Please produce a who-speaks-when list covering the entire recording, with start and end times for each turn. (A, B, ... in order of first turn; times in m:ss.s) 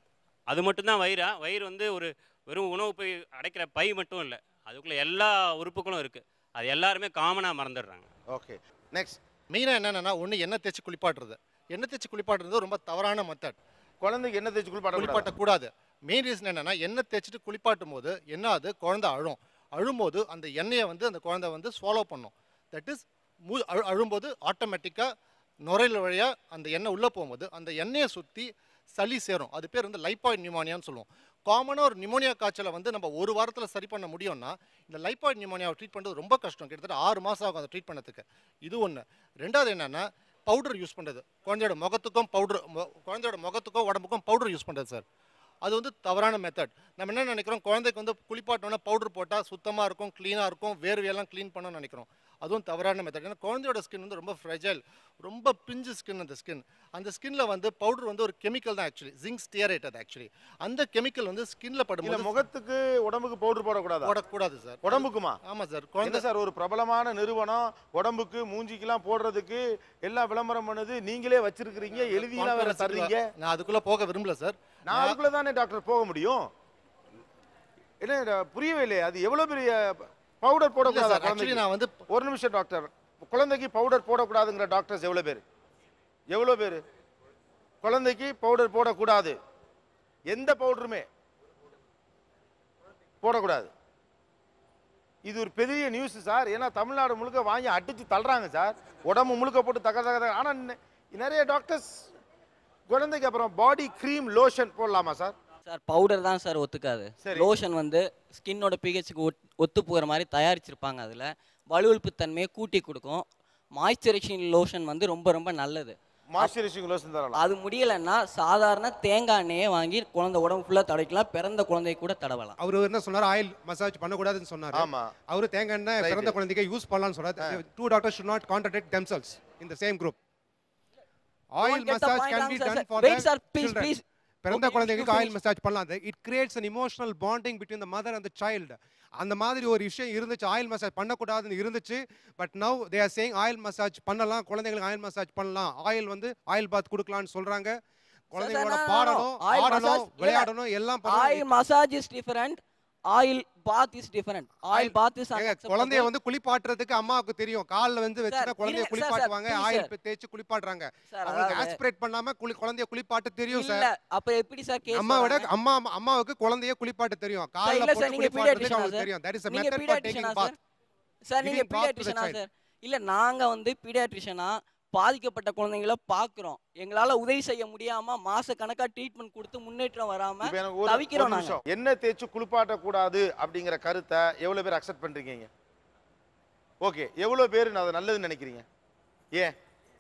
0:00.5-0:08.1 A
0:08.3-0:09.2 B
0:09.5-0:13.6 C
0:14.0-0:15.3 B
0:14.9-0:25.1 C
0:25.6-0:45.0 C
0:45.6-1:02.5 C
1:02.0-1:04.2 B
1:04.0-1:06.2 C
1:04.8-1:05.4 B
1:06.0-1:13.3 B
1:12.0-1:15.2 C
1:14.9-1:16.5 B
1:18.0-1:25.4 B
1:20.8-1:22.1 C
1:26.3-1:26.8 B
1:27.8-1:29.4 B
1:30.3-1:31.0 B
1:33.2-1:33.7 B
1:35.3-1:41.9 B
1:42.9-1:45.3 B
1:45.7-1:53.2 D
1:47.2-1:47.5 B
1:53.8-1:56.5 D
1:56.3-1:57.4 B
1:57.4-2:02.6 D
2:02.6-2:10.2 E
2:04.8-2:05.1 B
2:06.0-2:06.4 B
2:11.6-2:13.9 E
2:11.6-2:15.4 D
2:14.4-2:27.8 E
2:28.3-2:31.5 E
2:28.3-2:30.5 D
2:31.1-2:32.6 D
2:33.1-2:36.1 D
2:34.7-2:43.9 E
2:38.3-2:39.9 D
2:41.1-2:41.8 D
2:43.5-2:45.5 D
2:44.9-2:50.6 E
2:47.6-2:50.6 D
2:51.3-3:01.6 D
2:51.4-2:52.4 E
3:00.4-3:05.5 B
3:06.8-3:08.6 B